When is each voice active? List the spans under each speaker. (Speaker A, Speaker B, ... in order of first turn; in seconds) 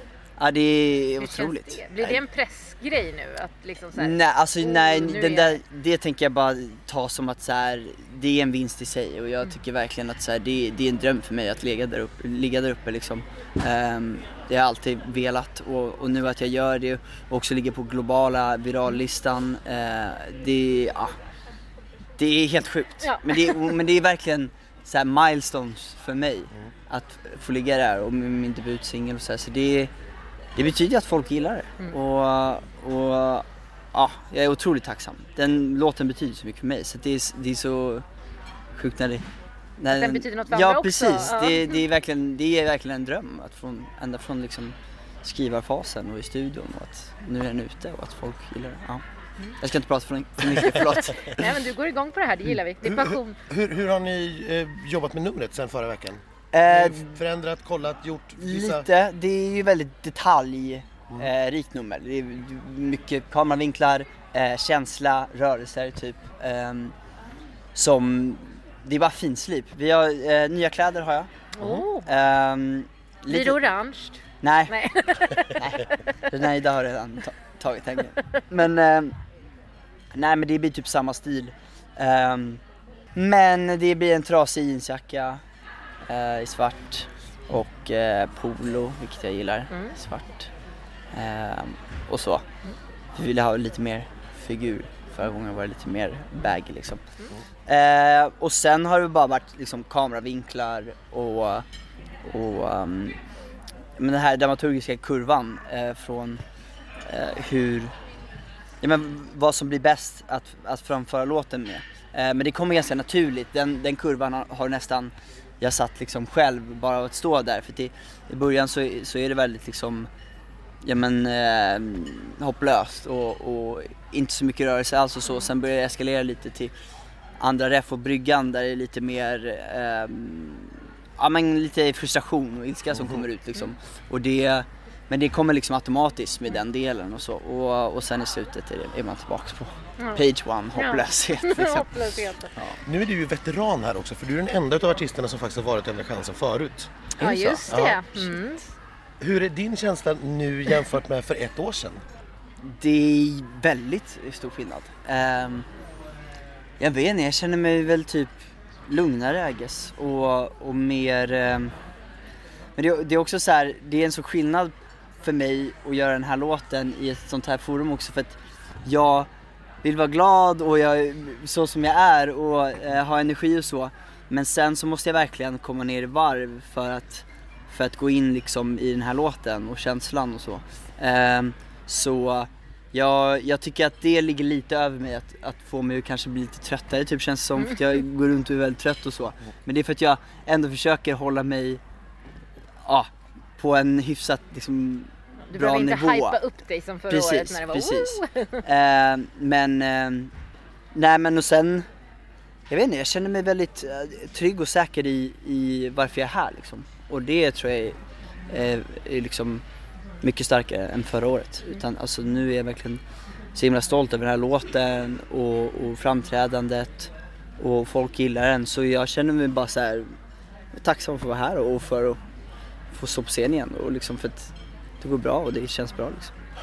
Speaker A: 0.4-2.2, 4.0-21.1, 22.2-29.9, 30.6-38.0, 38.8-39.2, 39.8-49.0, 49.6-51.3, 56.5-57.2, 58.4-66.9, 67.7-71.3, 72.0-73.6, 74.4-74.7, 75.5-79.2, 80.1-82.6, 83.1-85.4, 86.1-90.5, 91.1-92.4, 93.1-97.0, 97.7-101.6, 102.2-103.2, 104.0-106.4, 107.0-107.9, 108.8-120.1, 120.8-126.7, 127.4-142.0, 147.2-147.7, 152.6-155.7, 156.8-158.3, 158.9-161.7, 162.8-169.3, 169.8-191.8, 192.8-196.4, 197.1-200.3, 200.9-201.8, 202.7-208.0, 208.5-209.6, 210.2-213.0, 213.5-220.1, 220.7-222.2, 222.9-226.3
Speaker B: 1.2-5.6, 23.0-23.7, 39.9-41.8, 51.2-53.4, 71.6-72.1, 73.3-75.6, 140.0-140.2, 140.7-142.5, 147.2-148.6, 195.5-198.6
Speaker C: 52.8-58.9, 142.8-146.9, 147.7-148.2, 149.2-152.0